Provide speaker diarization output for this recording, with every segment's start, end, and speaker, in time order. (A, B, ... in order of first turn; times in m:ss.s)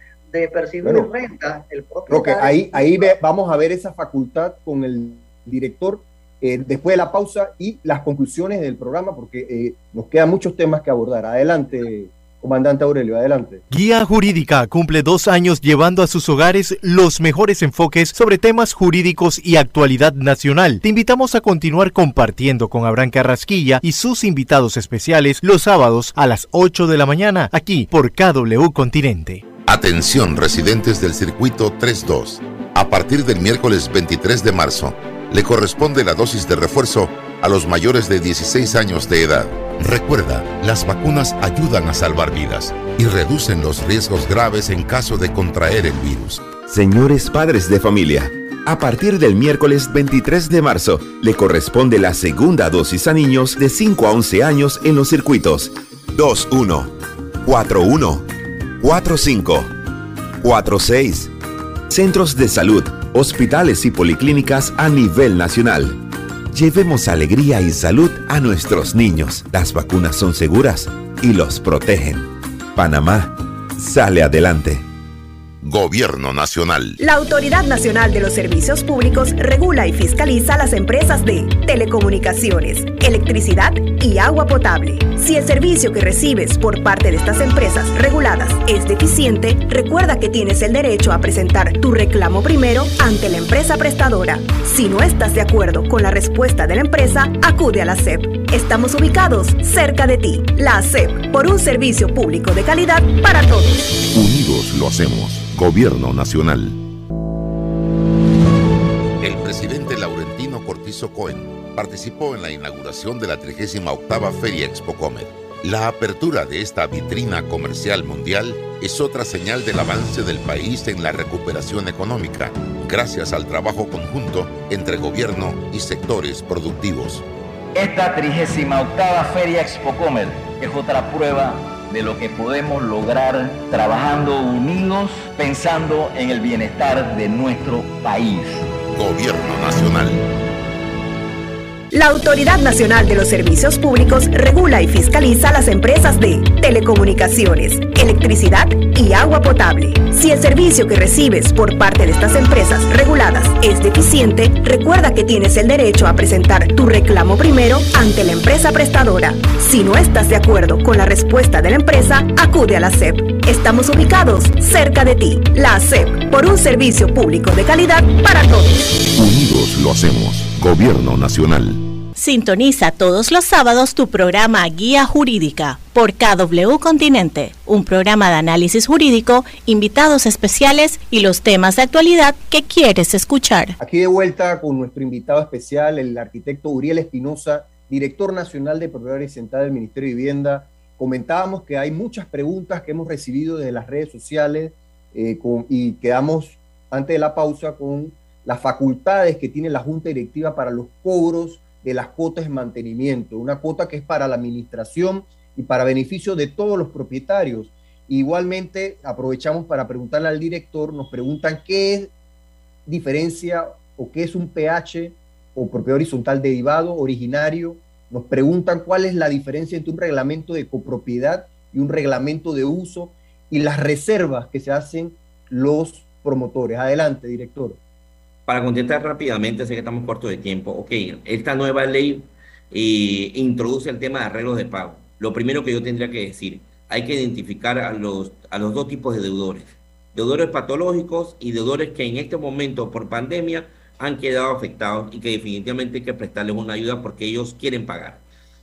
0:00.3-0:03.1 A
0:00.8-0:01.1 B
0:02.1-0:13.6 B
0:13.7-0:29.4 C
0:29.6-0:46.5 D
0:46.6-0:58.2 E
0:58.8-0:59.7 E
1:00.4-1:01.3 E
1:01.9-1:14.8 E
1:15.6-1:17.0 D
1:17.0-1:43.9 F
1:44.1-1:46.8 D
1:49.2-2:07.2 D
2:07.7-2:18.7 G
2:18.9-2:20.2 D
2:21.9-2:48.8 F
2:49.1-2:51.8 D
2:52.2-3:03.8 H
3:03.8-3:32.1 B
3:32.8-3:47.8 B
3:48.5-4:08.2 I